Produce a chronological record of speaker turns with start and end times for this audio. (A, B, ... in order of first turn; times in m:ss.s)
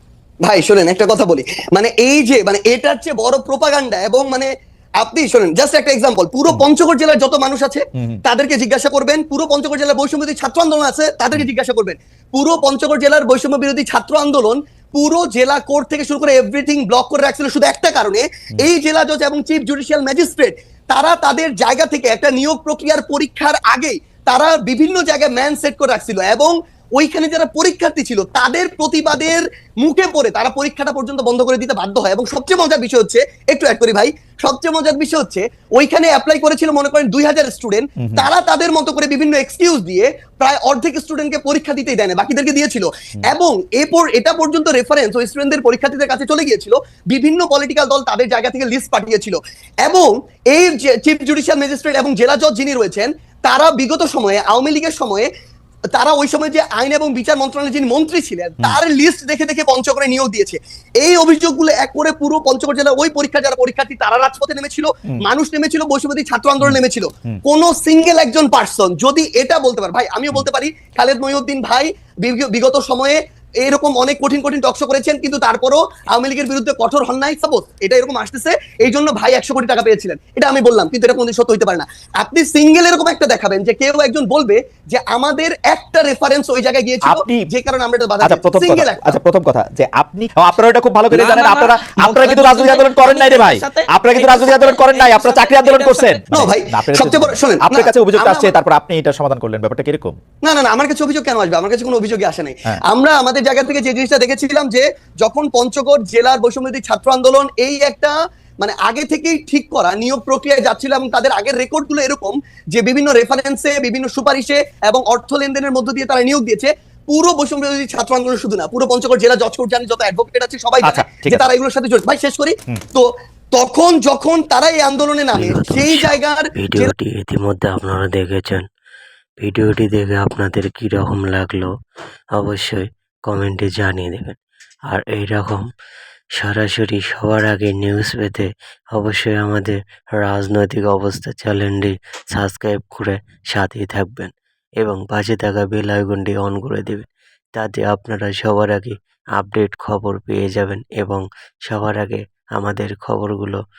0:00.4-0:55.3 A
0:38.0-0:38.3 B
0:55.9-1:29.2 A
1:06.6-1:07.4 B
1:27.0-1:27.5 B
1:28.2-1:40.2 B
1:31.1-1:38.5 A
1:40.4-2:06.9 A
2:00.8-2:01.4 B
2:05.4-2:08.7 C
2:09.4-2:11.7 C
2:12.4-2:14.4 C
2:14.9-2:15.7 C
2:16.4-2:33.6 C